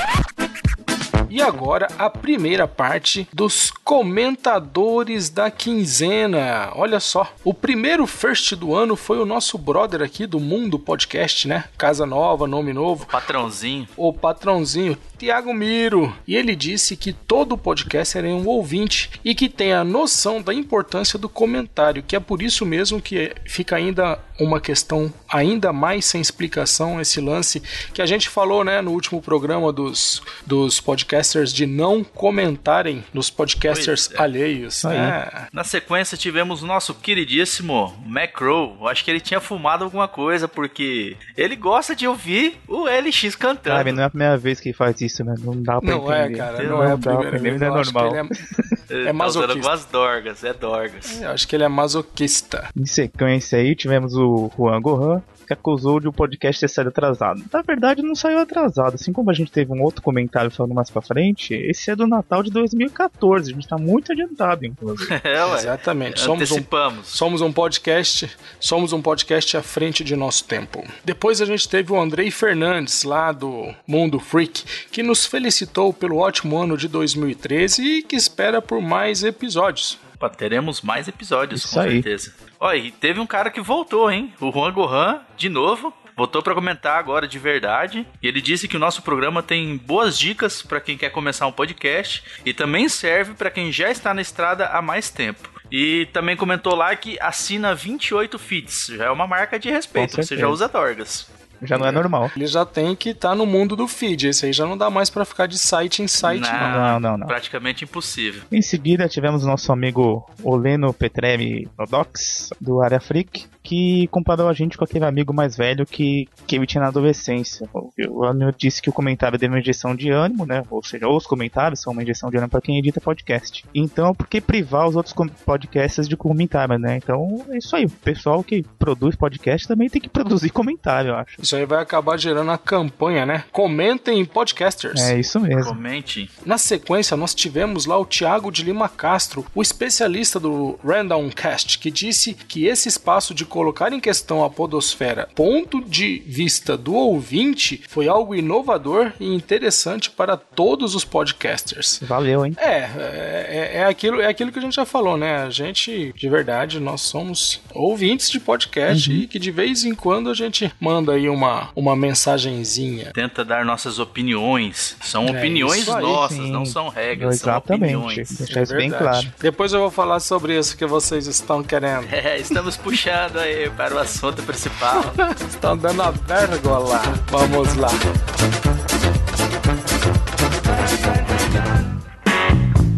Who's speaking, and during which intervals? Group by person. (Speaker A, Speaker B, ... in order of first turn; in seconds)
Speaker A: 1.3-13.2, 14.0-35.5, 45.8-48.4, 49.0-49.7, 51.1-52.7, 65.4-80.0, 101.7-106.8, 131.4-135.1, 136.4-152.0, 152.6-163.1, 165.2-166.2, 168.5-172.1, 175.0-178.0
Speaker B: 13.0-13.9, 33.7-34.2, 35.5-44.0, 46.6-46.9, 48.9-51.2, 65.1-67.2, 80.2-101.3, 106.2-108.5, 135.5-136.3, 163.2-168.4, 172.0-175.2
Speaker C: 34.8-35.2, 43.7-48.8, 52.8-65.2, 81.5-82.1, 100.0-100.6, 101.6-102.3, 106.6-107.4, 108.5-131.4, 134.9-135.8, 152.0-152.6, 158.9-159.3, 165.9-169.3